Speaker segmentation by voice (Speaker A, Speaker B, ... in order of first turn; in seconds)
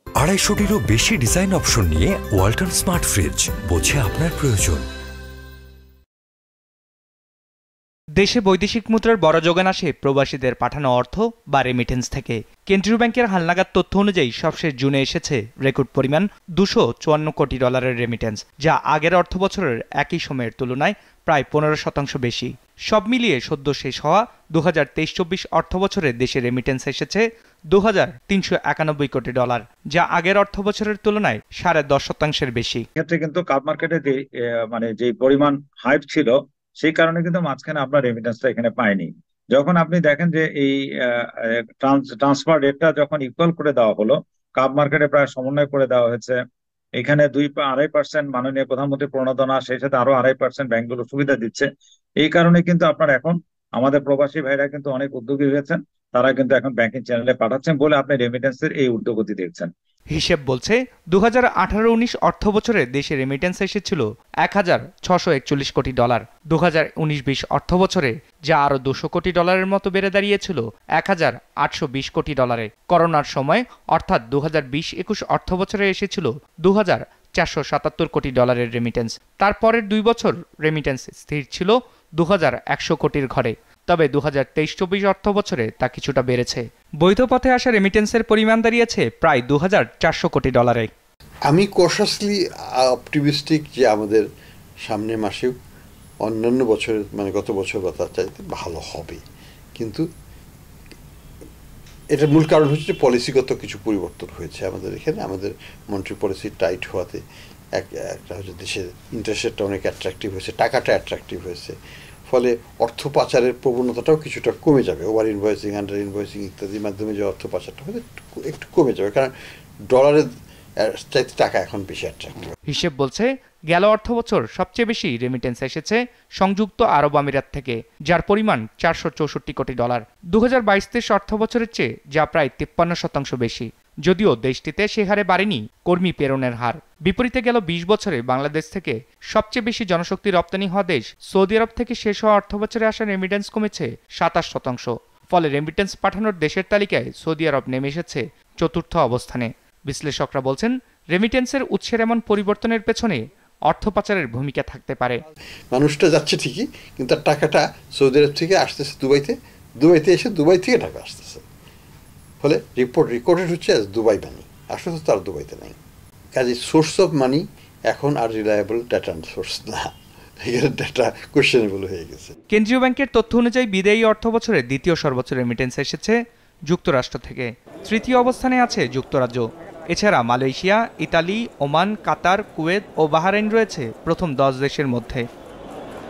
Speaker A: 0.2-4.9
Speaker B: 8.2-32.8, 60.1-90.9, 122.7-155.2, 172.5-176.1, 176.7-185.2
Speaker C: 33.0-46.4, 47.0-51.7, 52.2-59.7
Speaker D: 91.5-94.2, 94.8-95.5, 96.2-99.2, 99.8-100.0, 102.1-107.2, 107.8-111.8, 112.3-119.3, 119.9-122.5, 155.7-161.4, 162.4-165.8, 166.3-169.9, 170.4-172.3